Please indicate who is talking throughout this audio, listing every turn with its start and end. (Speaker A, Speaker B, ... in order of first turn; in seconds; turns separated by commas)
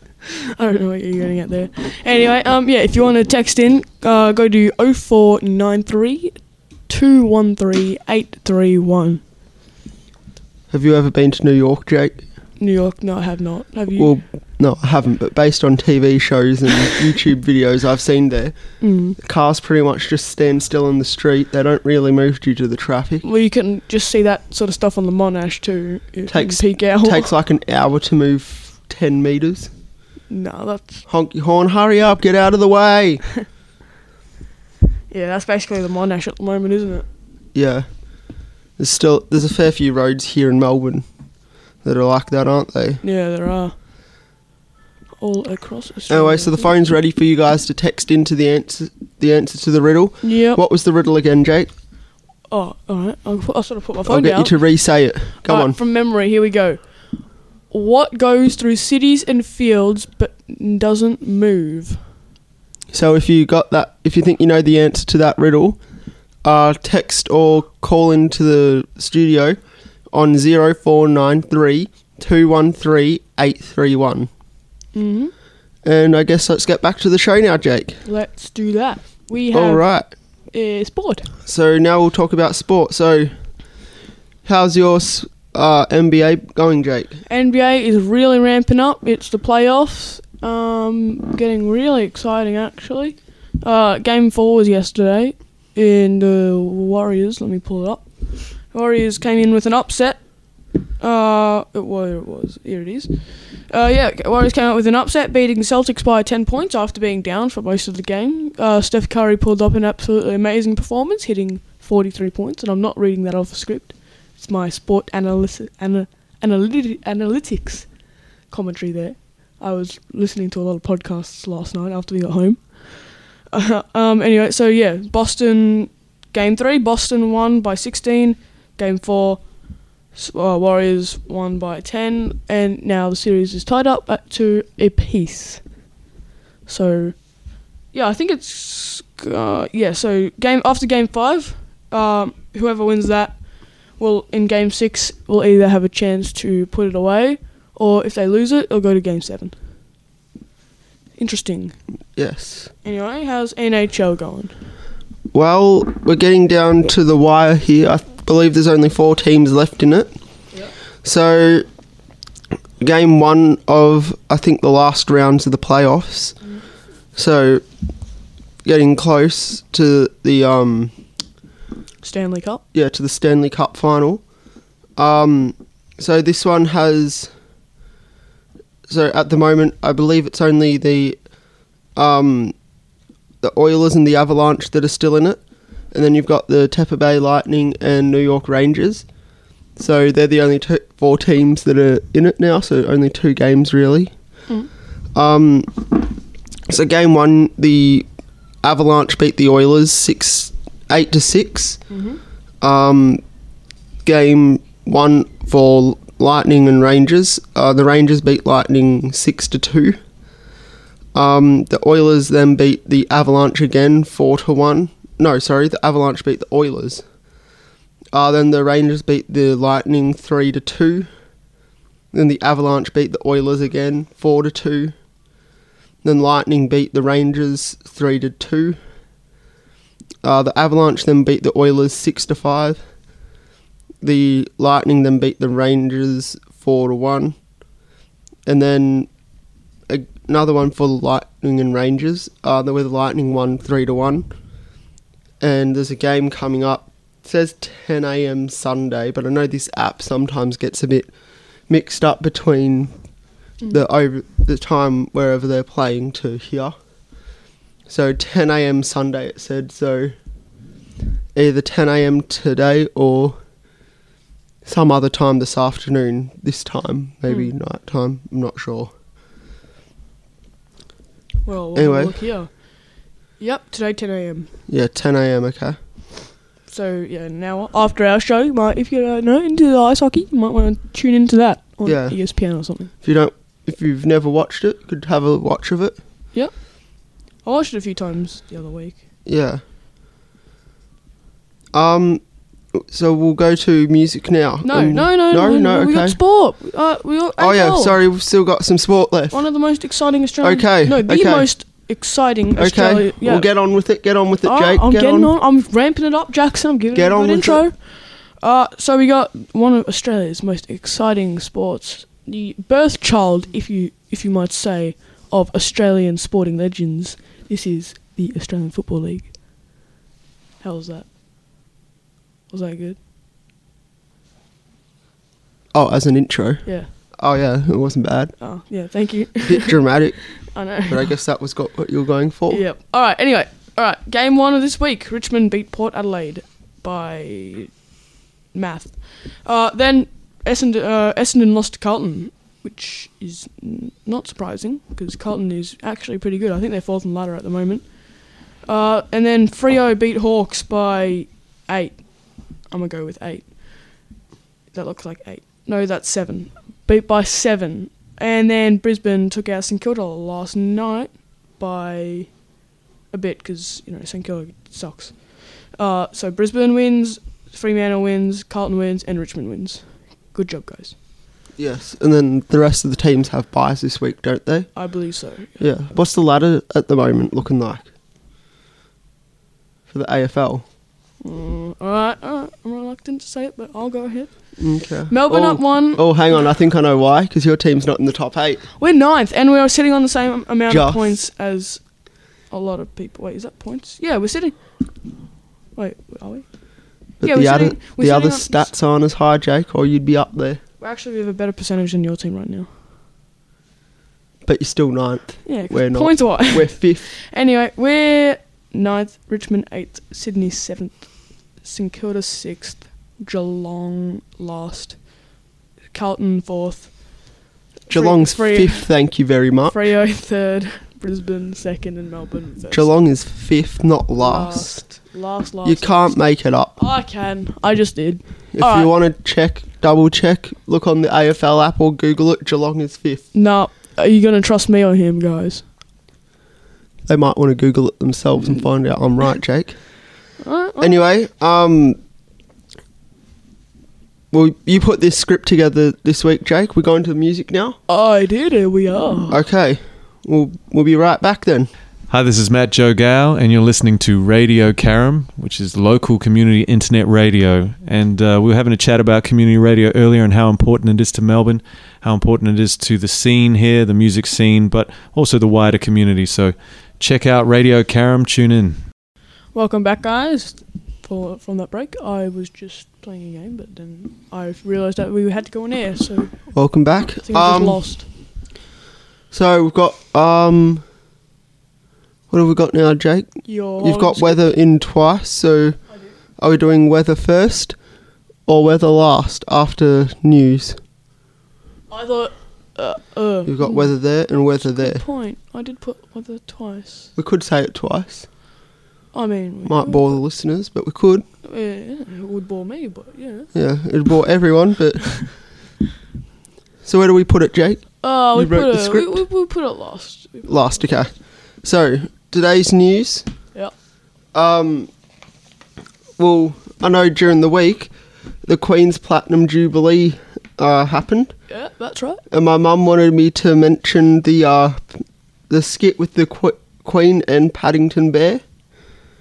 Speaker A: 0.6-9.2, Speaker B: 10.7-12.2, Speaker A: 12.6-14.1, Speaker B: 13.9-23.2, Speaker A: 18.8-19.2, Speaker A: 23.2-27.3, Speaker B: 26.3-29.7, Speaker A: 30.3-31.0, Speaker B: 31.1-33.2, Speaker A: 35.1-37.0, Speaker B: 37.5-37.9, Speaker B: 38.8-41.0, Speaker B: 41.8-43.0, Speaker A: 43.0-43.7, Speaker A: 45.2-46.8, Speaker B: 46.1-51.7, Speaker A: 50.2-50.6, Speaker A: 52.5-54.6, Speaker B: 54.0-55.8, Speaker A: 55.3-57.1, Speaker A: 57.7-62.0, Speaker B: 62.9-65.8, Speaker B: 66.4-69.6, Speaker B: 70.1-74.3, Speaker A: 74.9-75.3, Speaker B: 75.8-78.0, Speaker A: 78.0-79.9, Speaker B: 79.5-80.1, Speaker A: 80.5-81.3, Speaker B: 81.5-83.4, Speaker B: 84.4-87.2, Speaker A: 87.3-118.0, Speaker A: 118.5-129.5, Speaker A: 130.1-135.6, Speaker A: 136.7-137.4, Speaker A: 137.9-149.5, Speaker A: 151.2-151.8, Speaker B: 152.2-152.7, Speaker A: 152.8-154.5, Speaker B: 155.3-160.1, Speaker B: 161.0-161.7, Speaker B: 162.8-166.4, Speaker B: 167.1-167.6, Speaker B: 168.6-170.9, Speaker A: 172.0-172.6, Speaker B: 172.7-174.2, Speaker B: 174.9-177.3, Speaker B: 178.9-181.2, Speaker B: 181.9-182.5, Speaker B: 183.4-185.4, Speaker B: 185.9-189.0, Speaker B: 189.8-194.1, Speaker B: 195.1-196.1, Speaker B: 196.7-198.1, Speaker B: 198.6-201.8, Speaker A: 201.9-202.2, Speaker B: 202.6-203.2, Speaker B: 204.0-210.0, Speaker B: 211.1-217.0, Speaker B: 218.1-221.1, Speaker B: 222.1-224.9, Speaker B: 226.0-228.8, Speaker B: 230.2-232.8, Speaker B: 234.0-237.4, Speaker B: 238.4-239.1, Speaker B: 239.9-244.3, Speaker B: 245.4-251.1, Speaker B: 251.7-252.9, Speaker B: 253.7-256.7, Speaker B: 257.9-260.1, Speaker B: 261.3-263.4, Speaker B: 264.6-268.9, Speaker A: 271.4-274.5, Speaker B: 271.7-272.2, Speaker B: 274.7-275.8, Speaker A: 276.7-282.9, Speaker B: 281.8-282.2, Speaker B: 283.0-286.0, Speaker A: 286.3-289.0, Speaker B: 289.2-289.6, Speaker B: 291.7-292.2, Speaker B: 292.7-296.2, Speaker A: 294.6-298.0, Speaker B: 297.4-299.4, Speaker A: 299.3-303.5, Speaker B: 300.4-301.5, Speaker B: 302.6-305.3, Speaker A: 304.4-319.3, Speaker B: 306.9-307.6, Speaker A: 320.6-321.1, Speaker A: 322.5-323.0, Speaker B: 325.7-328.3, Speaker A: 326.6-326.9, Speaker A: 328.4-329.8, Speaker B: 329.4-332.6, Speaker A: 330.4-331.1, Speaker A: 332.5-337.9, Speaker A: 338.5-354.0, Speaker A: 354.7-362.3, Speaker A: 363.1-370.9, Speaker B: 371.6-374.7, Speaker A: 374.7-375.6, Speaker B: 375.6-377.9, Speaker B: 379.9-380.6, Speaker A: 381.2-386.1, Speaker B: 384.6-388.6, Speaker A: 388.8-391.8, Speaker B: 390.7-391.1, Speaker A: 392.5-394.6, Speaker A: 395.8-396.4, Speaker A: 397.2-398.7, Speaker B: 397.2-400.6, Speaker A: 400.8-402.7, Speaker B: 404.4-407.1, Speaker A: 405.4-415.3, Speaker A: 415.9-417.4, Speaker A: 417.9-419.1, Speaker B: 417.9-419.9, Speaker A: 419.7-422.9, Speaker B: 422.7-424.9, Speaker A: 424.2-428.9, Speaker B: 425.6-426.8, Speaker B: 428.5-433.3, Speaker A: 433.3-435.6, Speaker B: 437.1-439.9, Speaker A: 440.4-441.0, Speaker B: 440.8-442.0, Speaker B: 444.3-447.8, Speaker A: 447.9-449.4, Speaker B: 449.3-451.7, Speaker C: 452.1-468.8, Speaker A: 469.5-476.5, Speaker B: 476.5-477.9, Speaker A: 477.2-478.1, Speaker B: 479.3-480.8, Speaker B: 482.3-485.8, Speaker A: 483.4-484.4, Speaker B: 486.4-487.8, Speaker B: 488.5-490.8, Speaker A: 491.9-497.1, Speaker B: 493.4-495.0, Speaker B: 497.1-498.3, Speaker A: 499.1-500.2, Speaker B: 499.6-501.2, Speaker A: 501.4-503.5, Speaker B: 503.5-505.4, Speaker B: 506.8-509.2, Speaker A: 508.0-510.8, Speaker B: 510.4-513.3, Speaker B: 514.3-514.9, Speaker B: 516.2-517.9, Speaker B: 518.4-521.3, Speaker A: 521.5-522.2, Speaker B: 522.3-528.4